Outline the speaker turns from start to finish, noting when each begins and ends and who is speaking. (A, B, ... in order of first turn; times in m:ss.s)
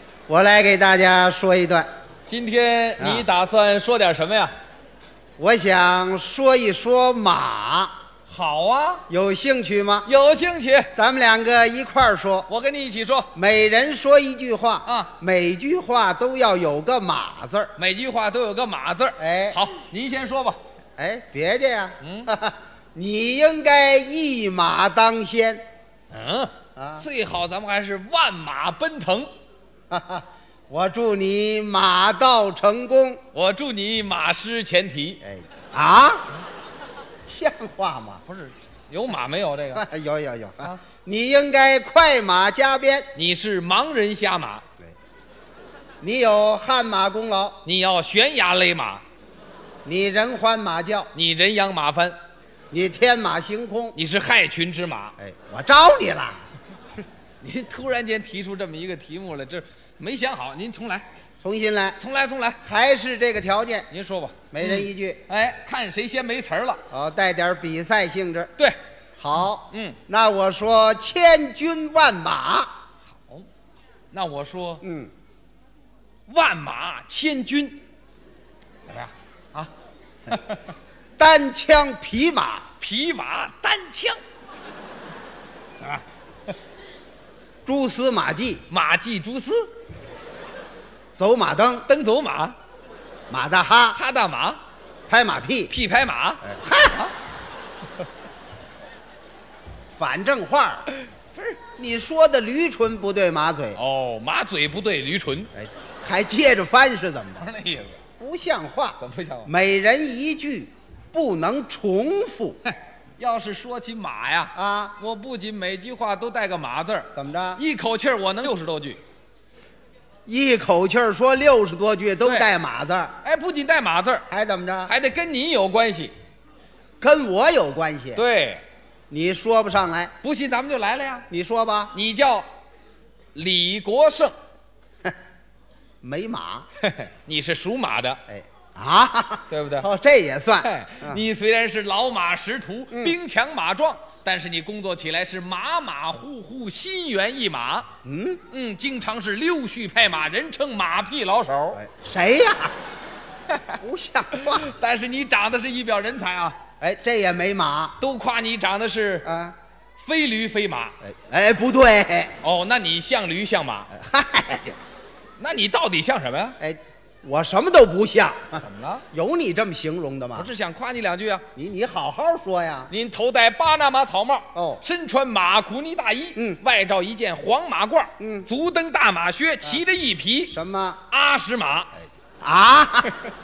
0:00.3-0:01.9 A
0:02.3-0:04.5 B
0:03.0-0:03.2 A
0:05.4-0:07.9 A
0:08.3-0:09.0 B
0:09.1-0:10.1 A
0:10.0-0:10.9 B
0:10.9-0:12.5 A
0:12.5-0:13.3 B
0:13.3-0:17.7 A
0:14.8-0:15.1 B
0:17.8-0:20.6 B
0:19.2-0:19.6 A
0:21.0-0:25.6 A
0:22.0-0:22.3 B
0:26.1-0:29.3 B
0:26.8-0:27.0 A
0:29.9-0:33.2 A
0:33.3-0:35.2 B
0:35.2-0:36.2 A
0:37.3-0:38.2 A
0:38.3-0:39.8 B
0:39.7-0:43.1 A
0:43.1-0:44.6 B
0:46.0-0:47.6 A
0:47.6-0:49.0 B
0:49.8-0:51.1 A
0:51.1-0:52.2 B
0:52.7-0:54.0 A
0:53.9-0:55.1 B
0:55.2-0:56.4 A
0:57.4-1:01.1 B
1:01.4-1:02.0 A
1:02.0-1:02.6 B
1:02.6-1:03.9 A
1:03.9-1:06.8 B
1:04.5-1:05.2 A
1:06.9-1:08.5 A
1:09.2-1:12.7 A
1:09.7-1:10.0 B
1:13.1-1:13.5 B
1:14.1-1:14.8 B
1:14.8-1:15.1 A
1:16.3-1:17.8 B
1:18.9-1:19.7 B
1:20.3-1:20.6 B
1:21.2-1:22.7 A
1:22.8-1:24.2 B
1:27.6-1:28.6 A
1:28.7-1:29.7 B
1:31.1-1:31.9 A
1:31.9-1:32.6 B
1:33.3-1:34.0 A
1:33.9-1:34.6 B
1:35.1-1:35.7 A
1:35.7-1:36.4 B
1:36.4-1:37.1 A
1:39.9-1:40.9 A
1:41.8-1:43.8 A
1:43.7-1:45.5 B
1:45.6-1:47.5 A
1:47.4-1:48.0 B
1:48.2-1:52.6 A
1:49.0-1:49.5 B
1:52.6-1:59.0 B
1:54.5-1:55.0 A
1:57.1-1:57.6 A
2:00.2-2:03.1 A
2:03.2-2:04.3 B
2:04.3-2:04.9 A
2:04.9-2:06.1 B
2:07.0-2:08.2 A
2:08.1-2:08.6 B
2:09.1-2:10.1 A
2:10.2-2:11.3 B
2:11.3-2:11.9 A
2:11.9-2:12.4 B
2:13.3-2:14.3 B
2:16.0-2:16.6 A
2:16.8-2:18.2 B
2:18.3-2:21.2 A
2:19.5-2:19.9 B
2:20.6-2:27.9 B
2:22.9-2:23.2 A
2:28.0-2:28.4 A
2:28.5-2:31.8 B
2:31.7-2:32.7 A
2:33.5-2:33.8 B
2:33.8-2:34.7 A
2:34.3-2:36.6 B
2:36.8-2:38.0 A
2:38.0-2:39.3 B
2:39.2-2:39.5 A
2:40.0-2:40.9 B
2:41.0-2:42.3 A
2:42.4-2:43.9 B
2:43.9-2:44.8 A
2:45.4-2:46.6 B
2:46.6-2:50.5 A
2:48.6-2:49.0 B
2:50.4-2:51.4 B
2:51.6-2:52.9 A
2:52.9-3:00.5 B
2:54.5-2:54.8 A
2:58.2-2:58.5 A
3:00.5-3:01.0 A
3:01.1-3:01.9 B
3:02.4-3:03.2 A